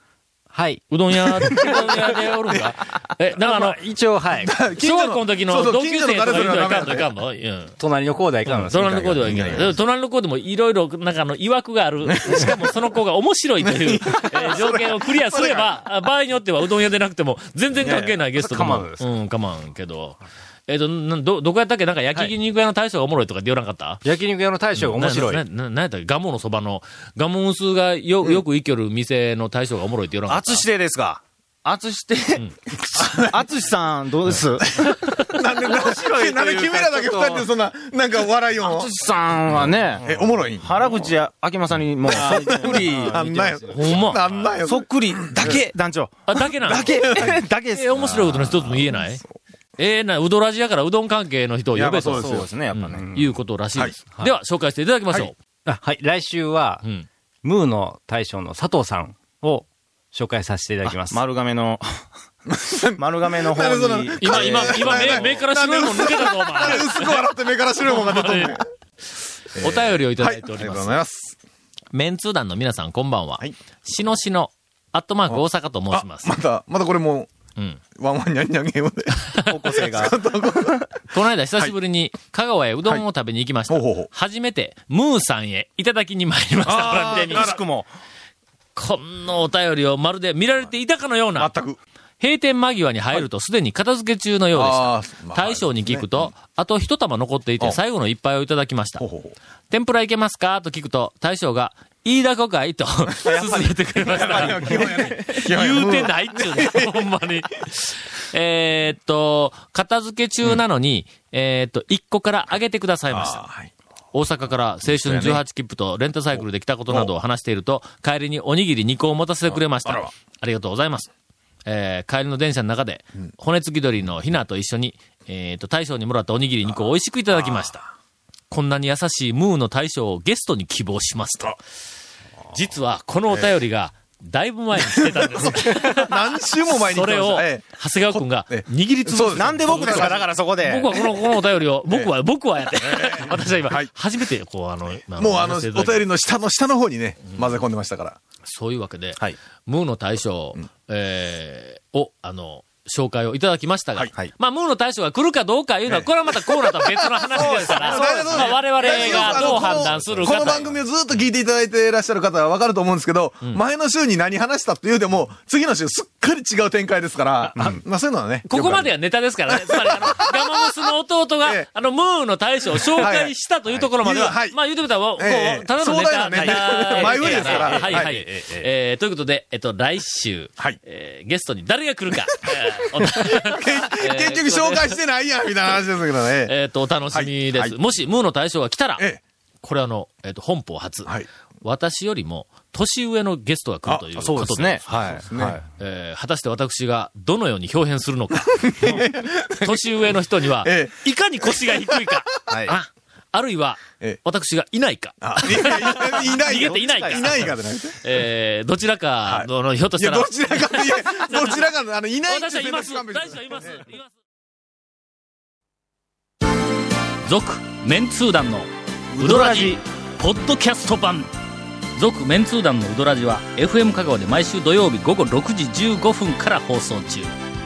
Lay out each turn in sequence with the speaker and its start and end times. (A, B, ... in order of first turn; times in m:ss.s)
0:00.5-0:00.8 A
0:00.9-0:03.8 B
0:03.4-0:04.5 A
0:04.4-0:07.1 C
0:04.8-0:07.8 B
0:07.8-0:09.7 A
0:08.4-0:24.0 B
0:09.2-0:09.8 C
0:12.1-0:12.6 C
0:13.6-0:15.7 C
0:17.8-0:18.2 C
0:18.4-0:18.9 A
0:24.0-0:25.4 A
0:24.8-0:30.6 B
0:30.3-0:37.5 D
0:33.0-0:33.4 C
0:35.1-0:38.9 C
0:38.6-0:48.8 D
0:40.0-0:41.1 C
0:42.1-0:45.7 C
0:43.7-0:44.3 B
0:46.3-0:49.2 B
0:46.8-0:47.3 C
0:48.8-0:49.2 C
0:49.8-0:55.3 B
0:51.7-0:53.4 D
0:52.1-0:52.4 C
0:55.7-0:56.8 A
0:56.8-0:57.1 B
0:57.4-1:01.2 A
1:00.8-1:02.0 D
1:02.5-1:08.6 C
1:03.0-1:05.4 D
1:04.2-1:07.2 B
1:07.8-1:08.6 B
1:09.6-1:11.4 C
1:09.6-1:11.0 B
1:11.9-1:16.4 B
1:15.3-1:17.3 C
1:18.0-1:21.8 C
1:19.4-1:19.9 B
1:19.5-1:20.2 D
1:21.1-1:27.6 B
1:23.7-1:24.1 C
1:26.6-1:27.6 C
1:27.0-1:27.9 D
1:28.8-1:31.5 B
1:31.4-1:31.8 C
1:32.2-1:39.0 B
1:34.5-1:36.3 C
1:39.0-1:39.4 C
1:39.7-1:53.4 B
1:43.2-1:44.9 D
1:44.0-1:47.0 C
1:53.1-1:53.7 C
1:54.1-2:01.1 B
1:54.8-1:55.4 C
1:59.5-2:00.1 C
2:01.7-2:07.9 B
2:07.3-2:07.7 C
2:08.5-2:11.6 B
2:12.5-2:26.1 B
2:14.8-2:20.2 C
2:19.2-2:21.0 D
2:22.8-2:23.9 C
2:25.2-2:28.2 C
2:28.4-2:40.8 B
2:35.9-2:48.9 C
2:37.4-2:40.6 D
2:48.5-3:05.0 B
2:49.5-2:50.7 C
2:52.9-2:58.2 C
2:56.4-2:58.1 D
3:03.0-3:06.5 C
3:06.4-3:09.0 B
3:07.1-3:08.0 C
3:09.6-3:11.1 B
3:11.6-3:15.1 B
3:14.2-3:15.6 D
3:14.9-3:15.6 C
3:15.8-3:31.7 B
3:18.5-3:19.8 C
3:20.6-3:22.1 C
3:22.5-3:22.8 D
3:25.2-3:28.0 C
3:26.5-3:27.4 D
3:29.3-3:33.8 C
3:32.3-3:34.1 B
3:37.2-3:41.3 B
3:39.1-3:39.8 D
3:42.0-3:47.3 B